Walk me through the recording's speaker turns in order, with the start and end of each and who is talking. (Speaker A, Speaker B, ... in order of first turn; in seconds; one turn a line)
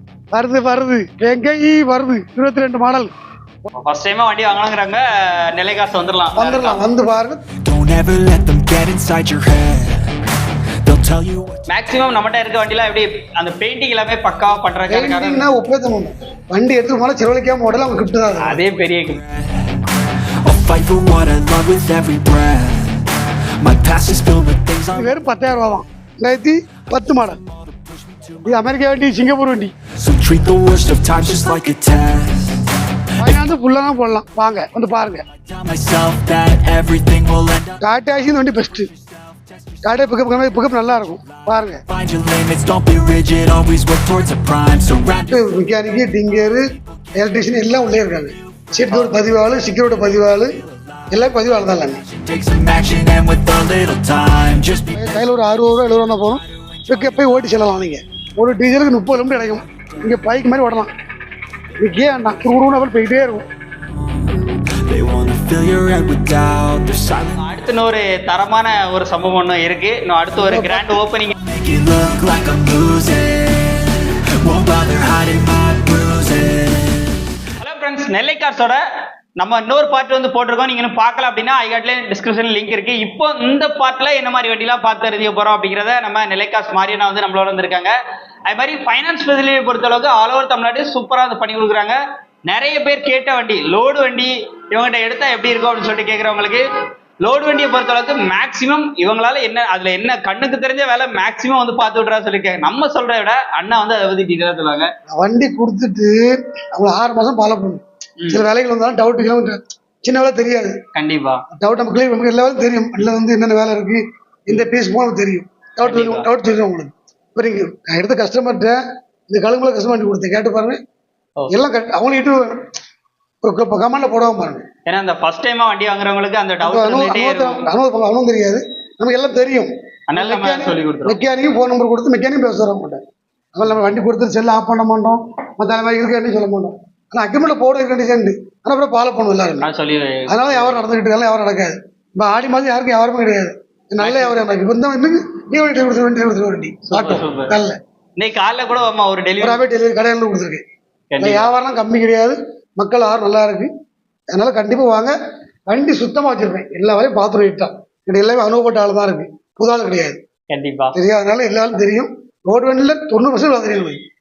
Speaker A: 0.3-3.1
Speaker B: 3.7-6.8
Speaker A: 6.3-7.4
Speaker C: 7.6-10.3
Speaker C: 10.8-11.7
Speaker B: 11.7-15.4
Speaker A: 14.9-18.6
Speaker B: 18.4-19.2
Speaker C: 18.5-25.2
Speaker A: 24.9-27.4
Speaker C: 27.1-28.7
Speaker A: 28.4-29.7
Speaker C: 29.9-33.4
Speaker A: 33.2-35.2
Speaker C: 35.3-37.8
Speaker A: 37.8-38.9
Speaker C: 38.7-45.5
Speaker A: 39.8-41.8
Speaker A: 45.3-50.5
Speaker C: 46.7-47.2
Speaker C: 48.6-55.3
Speaker A: 51.1-52.0
Speaker A: 54.9-60.9
Speaker C: 56.4-57.4
Speaker C: 58.9-60.1
Speaker A: 61.8-63.4
Speaker C: 63.8-67.5
Speaker B: 67.4-71.3
Speaker A: 70.4-71.0
Speaker C: 71.4-77.2
Speaker B: 77.6-78.8
Speaker B: 79.4-87.9
Speaker B: 88.5-96.6
Speaker B: 97.2-104.9
Speaker A: 105.1-110.8
Speaker B: 110.9-111.4
Speaker A: 111.5-120.8
Speaker B: 115.8-116.3
Speaker A: 121.5-122.7
Speaker A: 123.4-124.7
Speaker B: 124.9-127.6
Speaker A: 126.6-139.7
Speaker B: 130.1-131.2
Speaker B: 139.6-140.8
Speaker A: 140.3-147.8
Speaker B: 144.0-144.4
Speaker B: 146.9-147.6
Speaker B: 148.2-149.6
Speaker A: 149.4-150.6
Speaker B: 151.1-151.5
Speaker A: 151.2-153.7
Speaker A: 154.3-155.1
Speaker A: 155.7-160.2
Speaker B: 160.5-160.9
Speaker A: 160.9-164.0